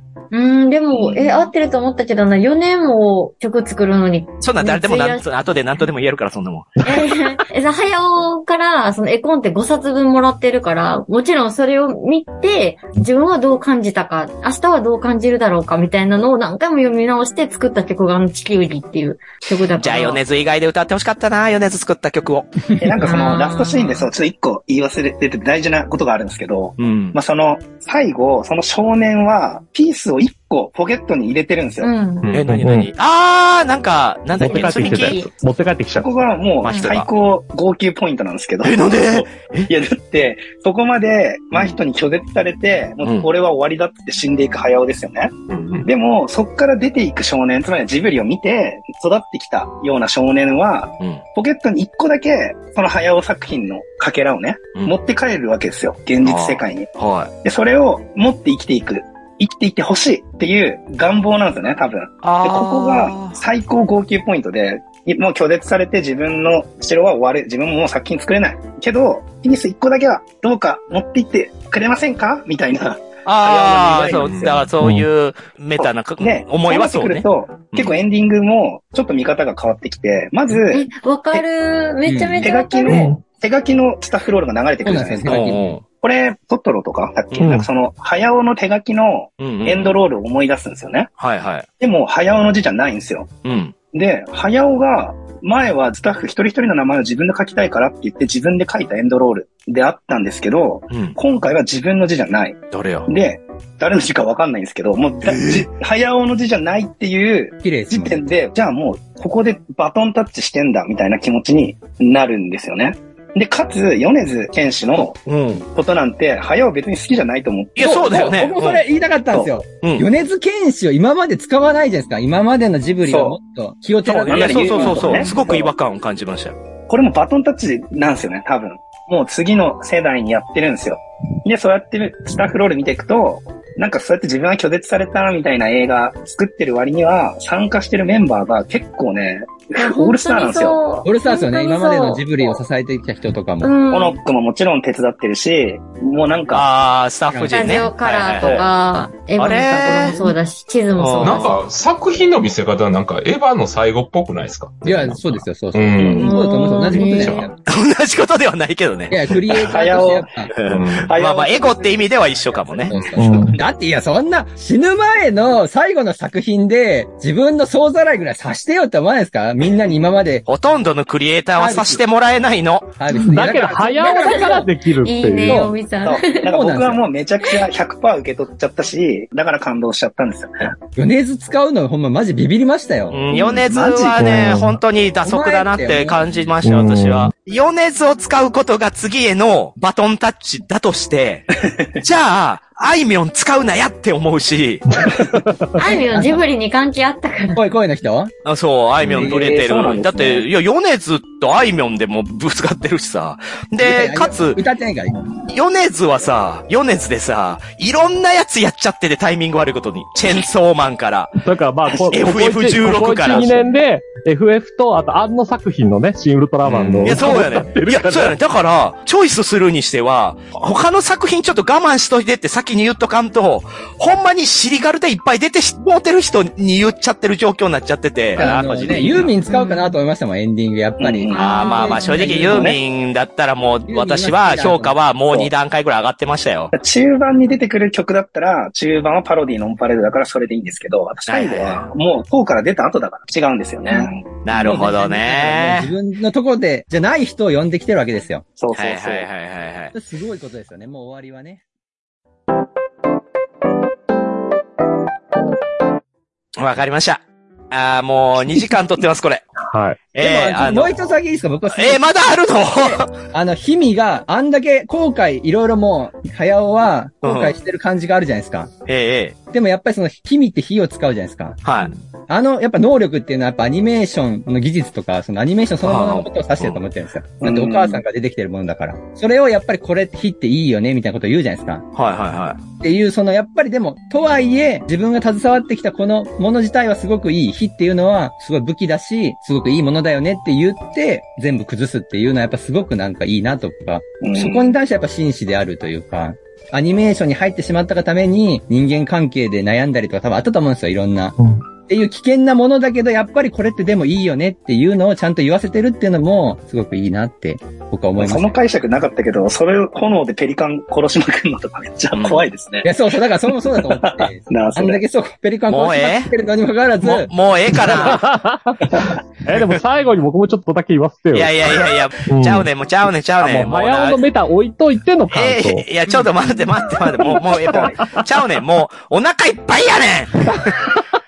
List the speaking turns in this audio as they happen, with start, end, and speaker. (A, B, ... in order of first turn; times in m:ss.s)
0:00.3-0:05.2 A
0:00.9-0:01.5 B
0:04.4-0:07.1 C
0:06.8-0:20.2 A
0:19.7-0:22.5 C
0:22.8-0:31.9 B
0:23.0-0:24.1 A
0:26.8-0:27.2 C
0:31.8-0:32.3 A
0:32.2-0:32.6 D
0:32.3-0:35.3 C
0:32.5-0:32.9 E
0:34.4-0:36.1 E
0:34.4-0:35.3 A
0:35.9-0:56.9 B
0:36.6-0:36.9 A
0:36.6-0:37.1 C
0:38.6-0:39.7 C
0:45.5-0:45.9 D
0:56.2-0:57.3 C
0:57.4-1:14.7 B
1:02.2-1:03.4 C
1:13.2-1:18.0 C
1:14.1-1:14.6 D
1:14.8-1:15.1 E
1:15.8-1:21.4 B
1:20.7-1:23.1 A
1:22.1-1:22.4 F
1:22.4-1:31.1 B
1:22.9-1:23.2 E
1:24.8-1:25.8 F
1:25.2-1:25.8 C
1:27.4-1:27.7 E
1:29.4-1:30.0 C
1:31.2-1:31.6 C
1:31.8-1:33.3 B
1:33.4-1:33.7 C
1:33.9-1:58.3 B
1:40.9-1:41.2 C
1:42.7-1:43.1 C
1:45.2-1:45.6 C
1:47.6-1:48.3 F
1:55.3-1:55.6 C
1:57.8-1:58.8 C
1:57.8-2:05.5 F
1:59.3-1:59.6 B
1:59.8-2:00.1 C
2:03.0-2:03.4 B
2:04.0-2:06.6 C
2:04.3-2:05.7 B
2:06.9-2:20.8 B
2:19.8-2:22.6 A
2:21.0-2:23.7 F
2:23.6-2:24.2 A
2:23.9-2:26.6 B
2:26.5-2:28.7 C
2:27.3-2:27.9 F
2:27.4-2:31.6 A
2:29.4-2:30.2 C
2:31.0-2:31.6 C
2:31.2-2:37.5 D
2:34.8-2:37.5 F
2:36.0-2:36.3 B
2:36.2-2:37.5 A
2:37.6-2:39.8 C
2:39.1-2:40.5 F
2:39.6-2:40.3 B
2:40.5-2:43.0 C
2:40.6-2:41.1 D
2:41.1-2:43.6 B
2:42.9-2:50.4 F
2:43.2-2:43.6 E
2:50.4-2:52.9 C
2:51.6-2:52.0 F
2:53.0-2:54.7 F
2:53.1-2:55.7 E
2:53.2-2:56.5 A
2:55.4-2:55.8 F
2:56.0-3:00.8 B
2:56.5-2:57.0 F
3:01.0-3:04.3 F
3:03.1-3:15.0 C
3:03.4-3:03.6 A
3:04.2-3:04.8 E
3:05.2-3:06.2 F
3:06.6-3:07.3 E
3:11.6-3:12.0 B
3:14.9-3:15.7 E
3:15.8-3:17.6 A
3:16.1-3:16.4 F
3:17.6-3:18.3 F
3:18.4-3:24.6 C
3:19.1-3:19.6 F
3:19.1-3:20.5 B
3:23.8-3:25.2 F
3:25.5-3:31.3 C
3:31.4-3:38.4 E
3:32.1-3:33.7 C
3:36.6-3:49.4 C
3:48.4-3:52.8 F
3:49.5-3:50.0 A
3:51.0-3:51.4 B
3:51.3-3:52.5 A
3:51.3-3:56.7 C
3:52.1-3:52.8 B
3:53.9-3:55.0 F
3:56.7-4:04.2 B
4:01.3-4:01.9 C
4:04.4-4:05.9 C
4:04.6-4:08.4 F
4:08.6-4:09.3 B
4:08.7-4:09.9 C
4:09.9-4:11.6 F
4:16.6-4:19.5 C
4:19.7-4:20.0 E
4:20.1-4:21.1 C
4:20.2-4:28.7 F
4:21.7-4:23.1 C
4:27.2-4:27.6 C
4:28.9-4:29.4 C
4:29.5-4:31.6 F
4:31.6-4:31.9 C
4:32.3-4:41.8 F
4:35.8-4:36.8 C
4:37.4-4:38.0 B
4:41.9-4:42.6 C
4:42.8-5:08.5 F
4:54.2-4:54.7 B
5:01.4-5:01.6 E
5:08.2-5:12.9 B
5:12.1-5:12.4 C
5:12.8-5:18.2 F
5:13.7-5:15.0 B
5:15.7-5:16.3 C
5:17.0-5:18.2 C
5:17.8-5:21.7 E
5:21.3-5:24.2 C
5:22.3-5:22.7 E
5:23.4-5:25.9 E
5:25.3-5:30.8 C
5:27.3-5:28.2 E
5:27.4-5:28.0 B